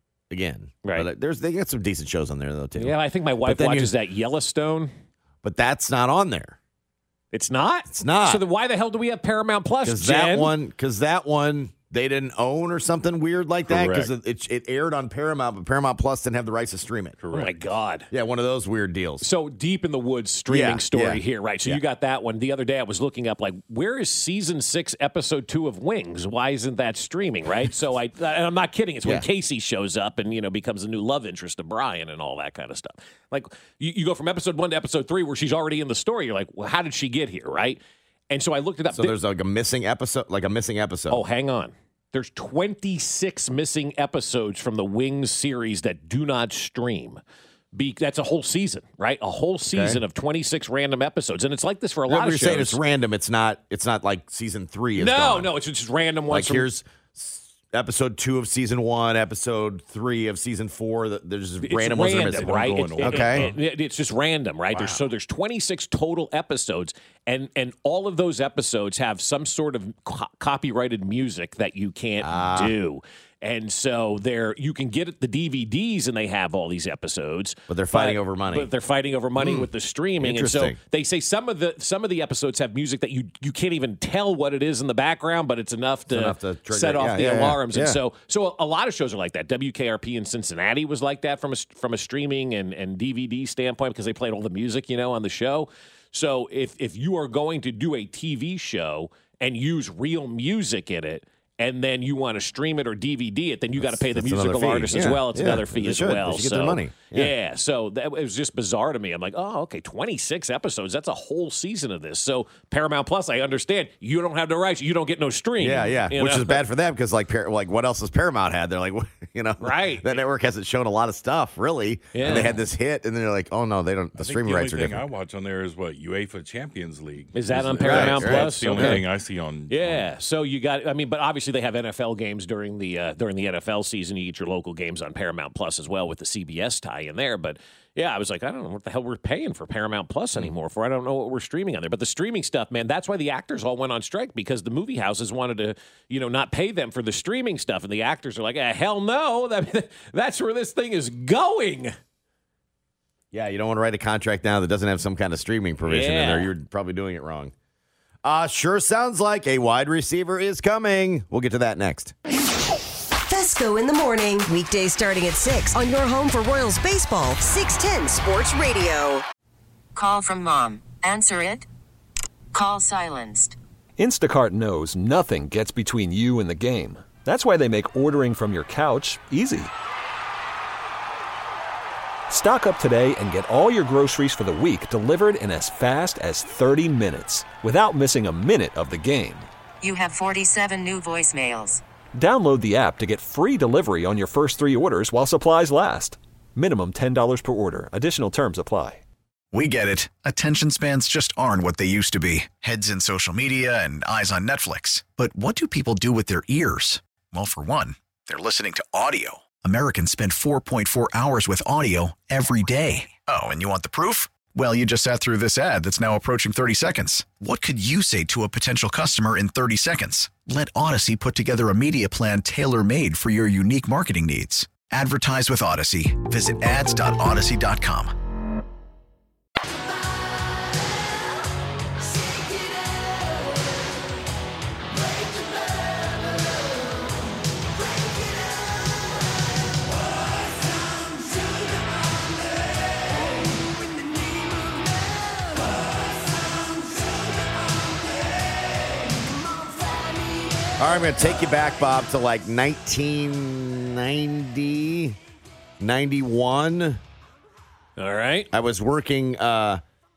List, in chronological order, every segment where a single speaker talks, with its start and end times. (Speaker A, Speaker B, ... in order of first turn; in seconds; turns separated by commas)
Speaker A: 0.3-3.9, Speaker B: 2.8-4.9, Speaker A: 5.4-6.6, Speaker B: 7.3-10.6, Speaker A: 7.9-8.4, Speaker A: 9.8-17.2, Speaker C: 13.7-14.1, Speaker C: 17.2-17.6, Speaker B: 17.3-18.1, Speaker A: 18.1-19.2, Speaker B: 19.2-39.2, Speaker A: 20.5-21.8, Speaker A: 38.9-41.2, Speaker B: 41.1-47.2, Speaker B: 47.7-52.8, Speaker A: 49.7-50.0, Speaker A: 52.1-55.5, Speaker B: 55.0-56.7, Speaker A: 56.3-63.5, Speaker B: 61.6-116.6, Speaker C: 62.0-63.6, Speaker A: 64.7-65.0, Speaker A: 72.2-72.8, Speaker A: 77.7-78.7, Speaker A: 79.4-79.7, Speaker A: 80.2-80.8, Speaker A: 86.1-88.0, Speaker A: 103.8-107.3, Speaker A: 115.6-125.0, Speaker B: 119.6-120.2, Speaker B: 122.1-122.5, Speaker C: 124.2-130.1, Speaker B: 127.3-129.0, Speaker A: 127.8-129.0, Speaker B: 129.7-151.9, Speaker A: 153.3-157.5, Speaker B: 155.8-156.5, Speaker A: 158.2-162.1, Speaker D: 163.2-169.2, Speaker E: 169.9-171.7, Speaker E: 172.5-173.6, Speaker F: 174.0-179.7, Speaker F: 182.3-189.5, Speaker E: 189.8-191.8, Speaker F: 192.1-199.0, Speaker G: 199.5-228.1, Speaker A: 250.8-255.2, Speaker A: 255.8-257.0, Speaker B: 258.0-258.5, Speaker A: 258.5-259.8